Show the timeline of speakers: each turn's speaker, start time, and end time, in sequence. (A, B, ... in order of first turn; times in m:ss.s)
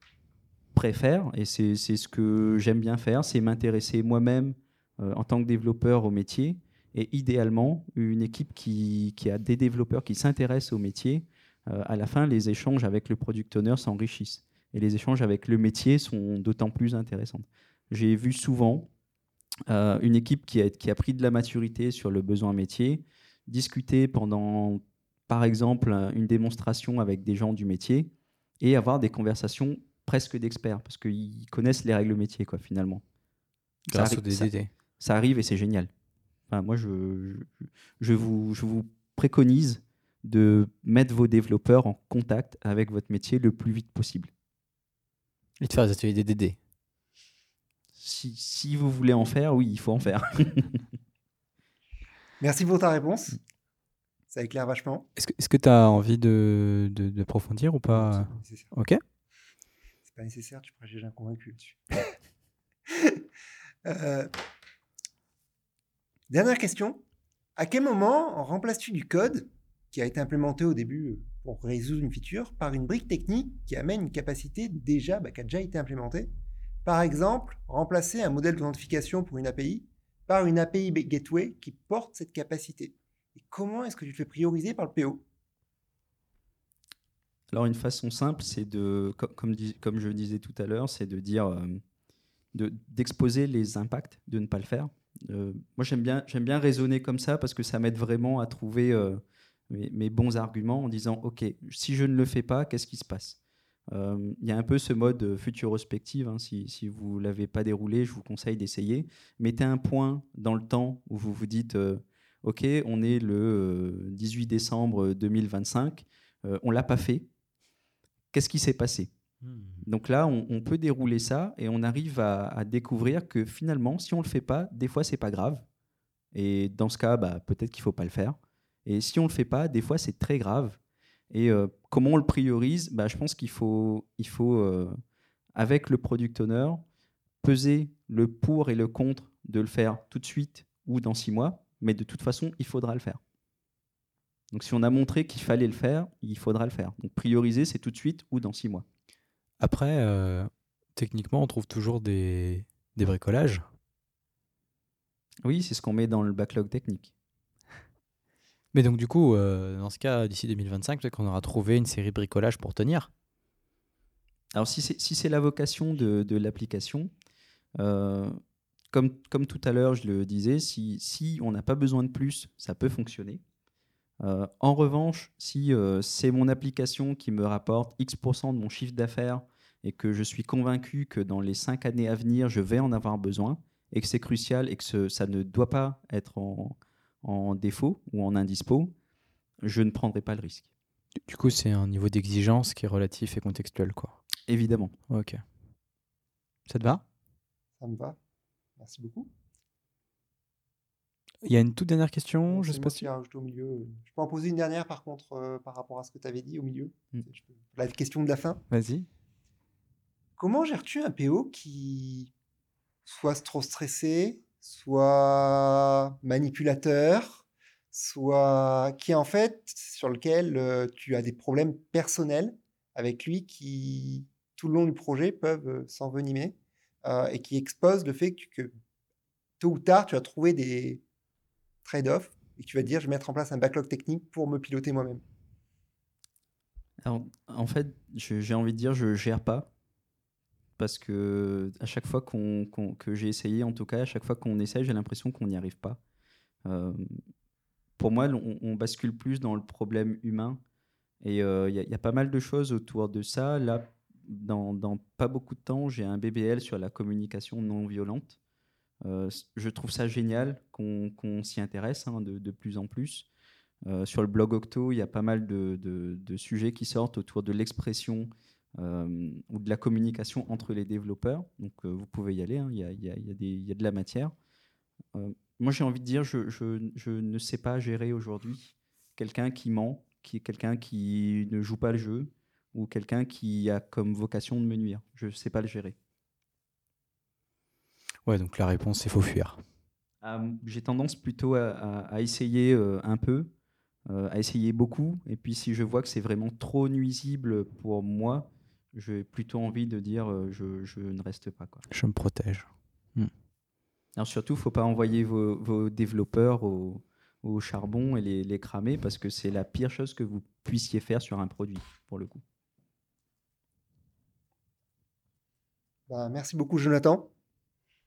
0:00.7-0:18.9 A
0:19.7-0:33.0 A
0:33.9-0:34.7 B
0:33.9-0:35.9 A
0:36.5-0:44.3 A
0:45.6-0:46.6 B
0:48.0-0:50.8 A
0:52.4-0:53.4 C
0:54.3-0:55.1 C
0:55.2-0:59.0 B
0:57.9-0:58.7 C
1:00.0-1:02.2 C
1:02.9-1:03.2 C
1:03.8-1:04.3 C
1:06.3-1:07.0 C
1:07.6-1:16.3 C
1:16.8-1:25.2 C
1:27.5-1:31.8 A
1:32.5-1:57.3 A
1:58.3-1:59.1 A
1:59.4-1:59.8 B
1:59.8-2:05.6 A
2:06.3-2:10.8 A
2:11.3-2:15.0 A
2:15.6-2:16.8 A
2:17.4-2:23.2 A
2:24.5-2:28.8 A
2:29.6-2:33.7 B
2:35.4-2:37.1 A
2:38.7-2:43.1 B
2:44.5-2:47.1 A
2:47.8-2:48.4 A
2:48.9-2:53.4 A
2:54.2-3:08.9 A
3:09.6-3:10.7 A
3:11.3-3:14.2 B
3:14.5-3:15.0 A
3:15.1-3:15.4 B
3:16.7-3:17.0 B
3:17.8-3:18.2 C
3:18.8-3:19.3 C
3:21.4-3:23.1 B
3:22.5-3:28.6 C
3:28.7-3:29.1 B
3:30.4-3:32.3 C
3:33.1-3:48.7 C
3:49.6-3:51.0 C
3:51.8-3:55.2 C
3:57.0-3:59.7 A
4:00.8-4:06.0 A
4:06.6-4:07.2 A
4:08.0-4:10.6 A
4:11.2-4:18.4 A
4:19.0-4:23.3 A
4:23.8-4:34.3 A
4:35.1-4:46.0 A
4:48.3-4:49.6 B
4:50.2-4:53.5 A
4:54.1-5:01.9 A
5:01.9-5:03.3 B
5:04.2-5:12.4 A
5:16.1-5:17.3 C